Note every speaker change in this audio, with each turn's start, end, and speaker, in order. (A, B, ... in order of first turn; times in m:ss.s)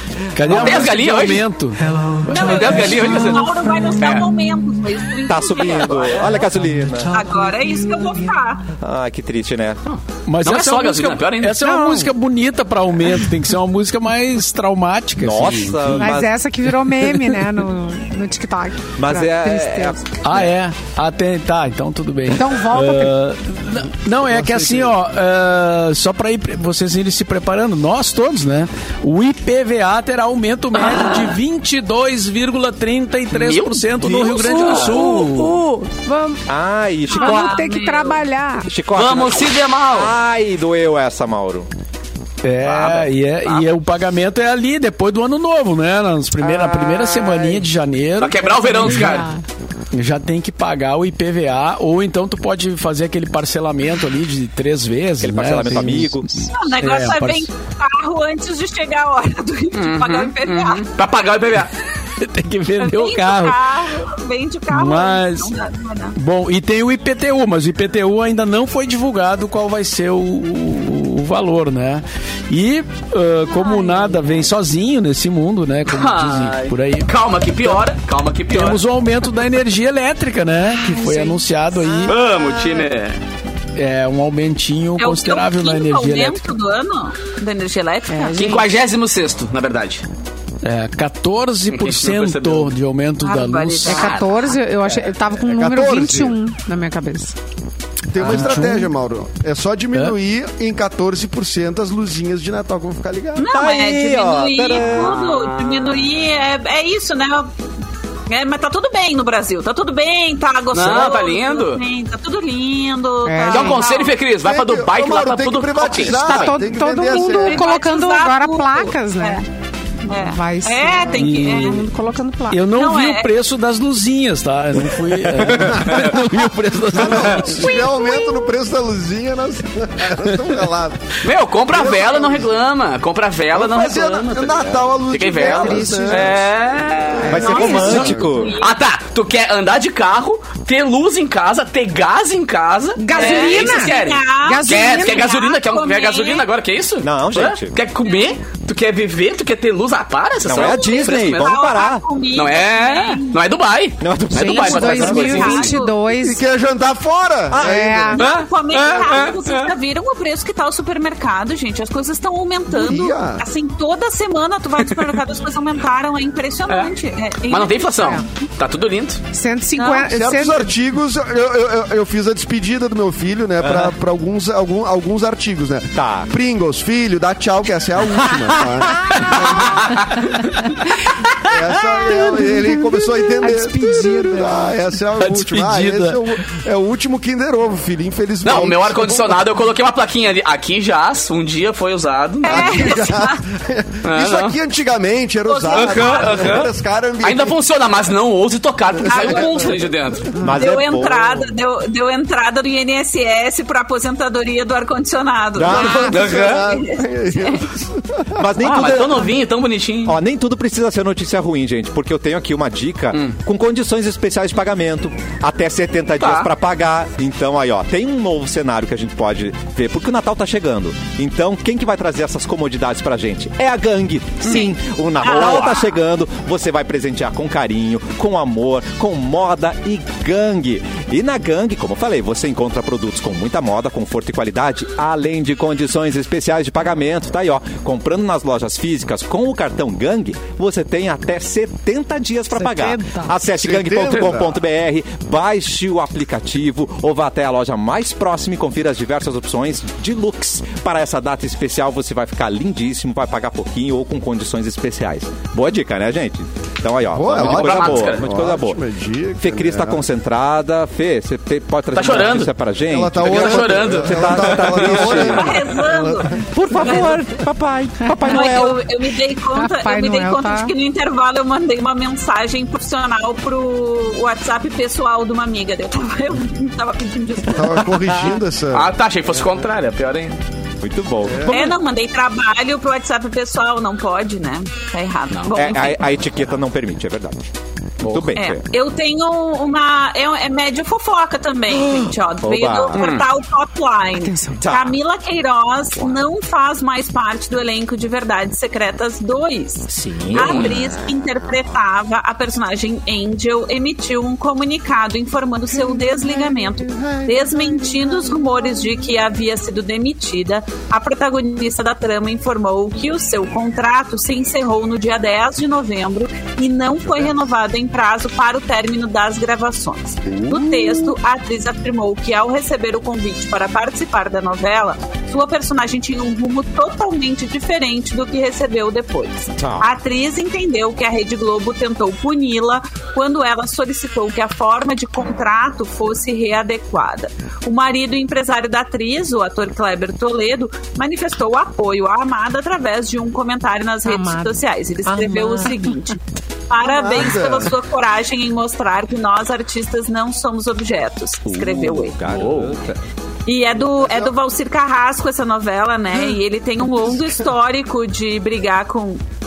0:00.3-0:03.5 A
0:00.4-0:01.4 B
0:02.3-0:04.3 B
0:02.3-0:06.5 C
0:05.2-0:07.2 D
0:07.1-0:08.6 C
0:08.8-0:09.8 D
0:09.9-0:11.6 B
0:10.2-0:16.1 A
0:11.6-0:12.1 E
0:15.2-0:16.4 D
0:15.9-0:20.0 E
0:19.0-0:20.5 D
0:20.2-0:35.6 A
0:22.3-0:23.1 E
0:33.3-0:35.0 B
0:34.0-0:34.7 D
0:34.5-0:36.4 E
0:36.5-0:37.6 D
0:37.1-0:38.2 C
0:37.1-0:38.7 E
0:38.6-0:41.7 D
0:38.9-0:40.1 B
0:42.4-0:49.2 A
0:42.6-0:43.7 B
0:48.2-0:49.3 B
0:48.8-0:49.4 E
0:49.9-0:57.5 A
0:55.2-0:56.4 D
0:56.5-1:00.9 C
0:59.7-1:01.7 B
1:02.2-1:03.6 A
1:02.8-1:06.2 C
1:04.7-1:05.5 A
1:06.1-1:17.1 A
1:13.6-1:14.1 E
1:15.9-1:18.8 B
1:18.5-1:22.2 A
1:20.8-1:22.1 E
1:21.9-1:22.3 D
1:22.1-1:23.2 B
1:23.7-1:26.4 A
1:25.0-1:28.4 C
1:28.1-1:28.7 E
1:28.3-1:30.0 B
1:30.6-1:34.1 A
1:31.7-1:32.7 B
1:33.2-1:34.3 C
1:33.8-1:37.3 E
1:35.4-1:36.4 F
1:38.1-1:43.5 F
1:38.2-1:38.9 A
1:43.4-1:47.5 C
1:43.5-1:45.2 D
1:44.8-1:46.0 B
1:48.3-1:54.1 C
1:50.7-1:51.8 B
1:53.2-1:53.9 E
1:53.5-1:56.6 B
1:54.4-1:57.7 F
1:56.1-1:59.4 E
1:57.4-1:59.4 C
2:00.1-2:01.8 C
2:00.1-2:02.6 E
2:01.2-2:01.8 A
2:02.5-2:07.4 A
2:02.8-2:03.3 C
2:05.4-2:07.8 B
2:05.5-2:12.5 F
2:07.4-2:08.4 C
2:11.2-2:31.5 B
2:13.5-2:16.5 F
2:15.4-2:16.4 E
2:17.1-2:18.3 F
2:17.2-2:18.2 E
2:17.3-2:18.5 D
2:17.5-2:18.8 C
2:23.0-2:25.3 E
2:23.1-2:26.5 C
2:27.0-2:27.7 D
2:28.1-2:28.3 C
2:30.4-2:32.0 D
2:30.5-2:33.4 C
2:32.3-2:35.7 B
2:34.0-2:35.7 D
2:34.3-2:36.4 E
2:34.7-2:36.0 C
2:36.2-2:38.3 F
2:37.5-2:38.4 D
2:37.6-2:38.2 E
2:38.2-2:48.0 C
2:38.2-2:39.7 B
2:42.8-2:43.4 F
2:47.5-2:49.2 B
2:48.0-2:48.2 E
2:49.3-2:50.7 E
2:49.8-2:50.1 C
2:50.1-3:00.4 F
2:55.9-2:56.3 D
2:58.2-2:58.7 D
2:59.4-3:00.1 B
3:00.4-3:00.7 E
3:01.4-3:09.4 F
3:01.9-3:04.5 E
3:03.8-3:04.3 A
3:05.2-3:06.2 A
3:08.4-3:12.8 B
3:12.4-3:13.4 C
3:12.4-3:17.6 F
3:14.0-3:14.6 B
3:15.5-3:16.5 C
3:15.7-3:16.7 B
3:17.2-3:20.4 B
3:19.0-3:20.4 F
3:19.0-3:19.8 C
3:20.4-3:21.5 D
3:20.5-3:27.6 C
3:25.6-3:26.1 D
3:25.6-3:28.5 F
3:26.1-3:26.7 B
3:28.3-3:29.3 D
3:28.6-3:30.2 B
3:30.0-4:18.8 D
3:36.2-3:36.5 B
3:44.5-3:45.9 C
4:02.6-4:03.3 E
4:03.6-4:04.6 F
4:17.1-4:20.0 F
4:17.3-4:18.3 B
4:19.4-4:25.6 D
4:21.9-4:22.5 B
4:22.9-4:26.4 F
4:23.2-4:25.3 B
4:25.2-4:27.4 C
4:26.5-4:28.8 D
4:28.0-4:28.4 E
4:28.2-4:37.8 C
4:29.5-4:30.7 E
4:37.5-4:38.9 F
4:37.8-4:38.4 D
4:38.7-4:40.4 B
4:40.8-4:41.8 D
4:41.3-4:41.6 F
4:41.5-4:46.0 C
4:45.3-4:45.6 B
4:45.5-4:47.4 D
4:48.0-4:48.6 D
4:48.0-4:48.3 B
4:48.3-5:46.2 C
4:51.7-4:53.0 D
4:52.9-4:53.3 B
4:54.2-4:54.6 E
4:54.6-4:55.0 D
4:59.9-5:00.8 D
5:00.3-5:00.7 B
5:06.9-5:07.4 F
5:20.2-5:20.9 F
5:29.6-5:29.9 D
5:44.0-5:44.5 E
5:45.0-5:45.9 E
5:46.7-5:52.1 C
5:46.8-5:47.7 F
5:51.4-5:53.0 D
5:52.2-5:52.7 B
5:53.5-5:59.2 C
5:54.0-5:54.3 F
5:57.0-5:57.3 F